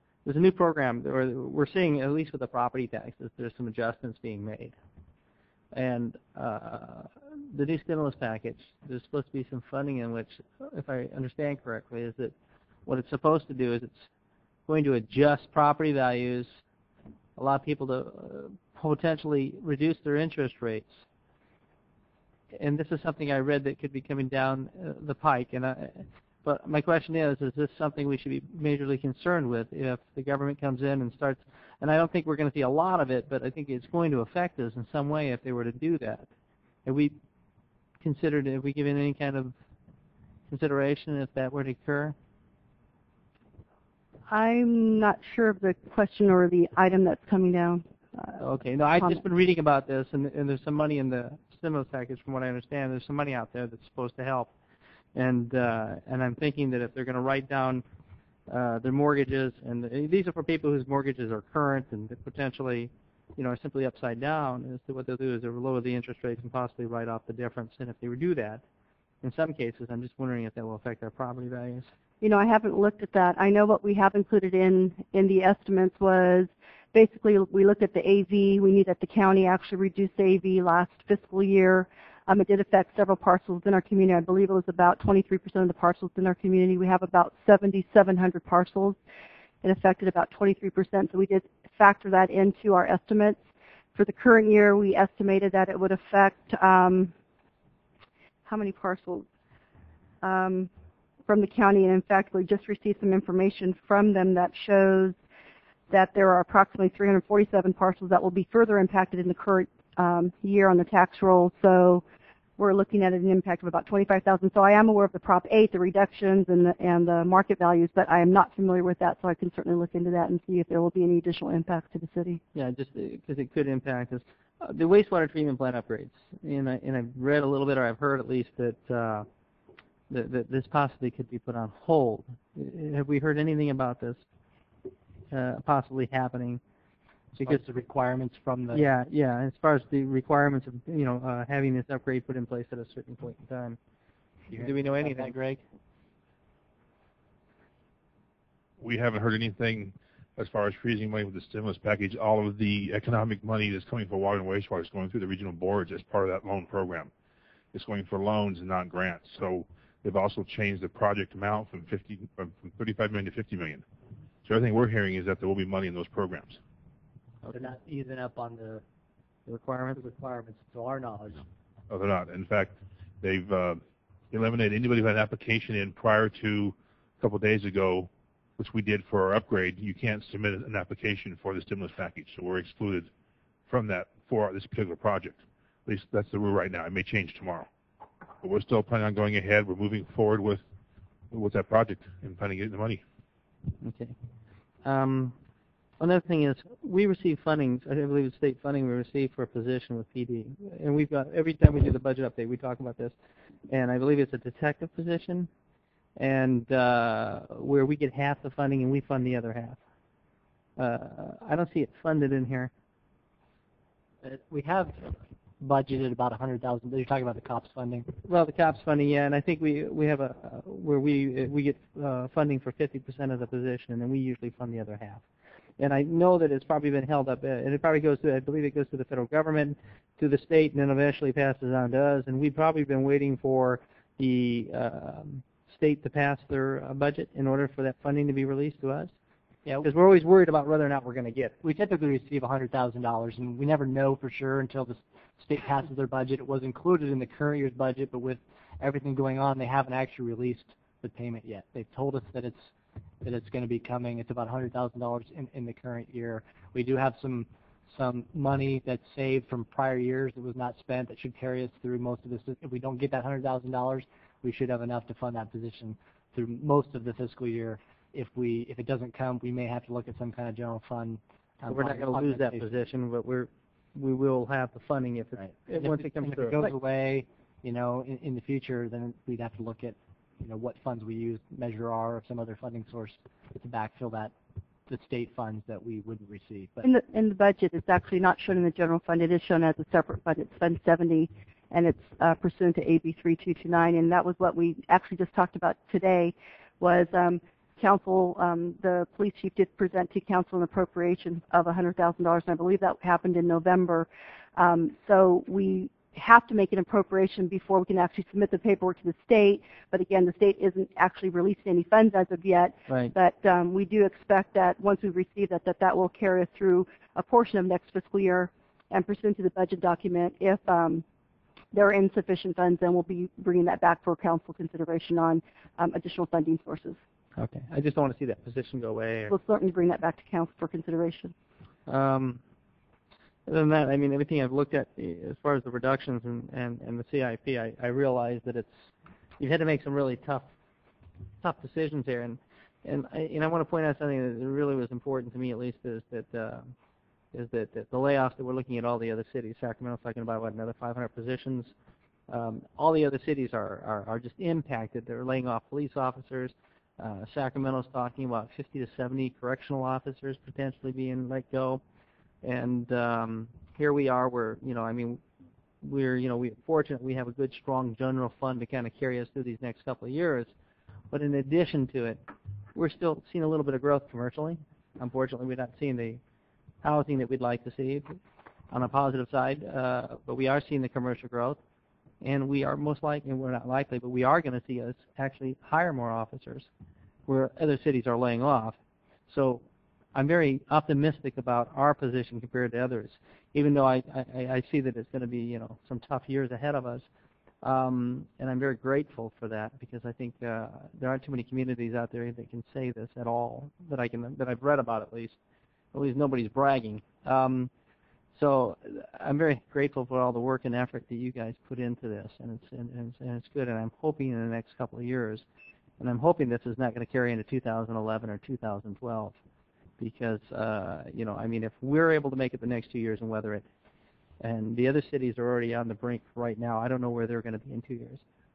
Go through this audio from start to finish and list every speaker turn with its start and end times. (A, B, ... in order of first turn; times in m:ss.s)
0:00.2-0:04.8 A
0:05.7-0:12.3 A
0:12.9-0:14.1 A
0:14.7-0:16.6 A
0:17.4-0:21.0 A
0:22.5-0:36.3 A
0:36.8-0:37.2 A
0:38.0-0:39.6 A
0:40.5-0:42.2 A
0:44.3-0:48.4 B
0:48.4-0:54.5 A
0:55.1-0:57.8 A
0:58.5-1:08.6 A
1:09.2-1:11.9 A
1:12.2-1:29.0 B
1:29.6-1:33.4 B
1:34.0-1:37.1 B
1:38.5-1:39.3 B
1:40.2-1:40.7 B
1:41.3-1:45.2 B
1:45.9-1:52.0 B
1:52.6-2:02.4 B
2:02.5-2:09.3 A
2:10.1-2:14.2 A
2:15.3-2:16.6 A
2:17.3-2:17.7 A
2:17.4-2:18.8 C
2:18.7-2:23.8 A
2:24.5-2:25.6 C
2:24.5-2:25.5 A
2:28.8-2:37.1 D
2:37.7-2:43.8 D
2:44.4-2:46.6 D
2:47.5-2:48.8 C
2:49.5-2:50.0 A
2:49.9-2:51.4 C
2:51.9-3:03.1 D
3:03.7-3:07.7 D
3:08.4-3:10.6 D
3:11.3-3:13.0 D
3:13.8-3:14.2 A
3:14.8-3:15.3 A
3:16.0-3:23.2 A
3:23.7-3:25.5 A
3:26.2-3:29.8 A
3:30.8-3:32.7 A
3:34.2-3:38.1 C
3:38.3-3:45.2 A
3:45.8-3:59.1 A
3:59.8-4:01.6 A
4:01.6-4:12.7 C
4:13.2-4:32.7 C
4:31.7-4:36.8 A
4:35.4-4:44.3 C
4:44.9-4:46.9 C
4:46.8-5:21.0 B
5:12.9-5:13.1 A
5:21.7-5:27.0 B
5:27.4-5:29.3 A
5:29.3-5:31.3 B
5:31.9-5:32.4 A
5:33.5-5:38.9 A
5:39.4-5:40.5 A
5:41.4-5:46.7 A
5:47.3-5:51.7 A
5:52.3-6:01.8 A
6:02.4-6:05.2 A
6:05.8-6:10.5 A
6:11.1-6:12.2 A
6:12.8-6:16.2 A
6:16.8-6:18.2 A
6:18.7-6:21.6 A
6:22.2-6:26.7 A
6:27.3-6:28.8 A
6:29.3-6:29.6 A
6:30.1-6:37.1 A
6:37.6-6:45.4 A
6:45.9-6:47.7 A
6:48.3-6:55.4 A
6:56.0-6:59.4 A
7:00.0-7:03.6 A
7:04.4-7:08.2 A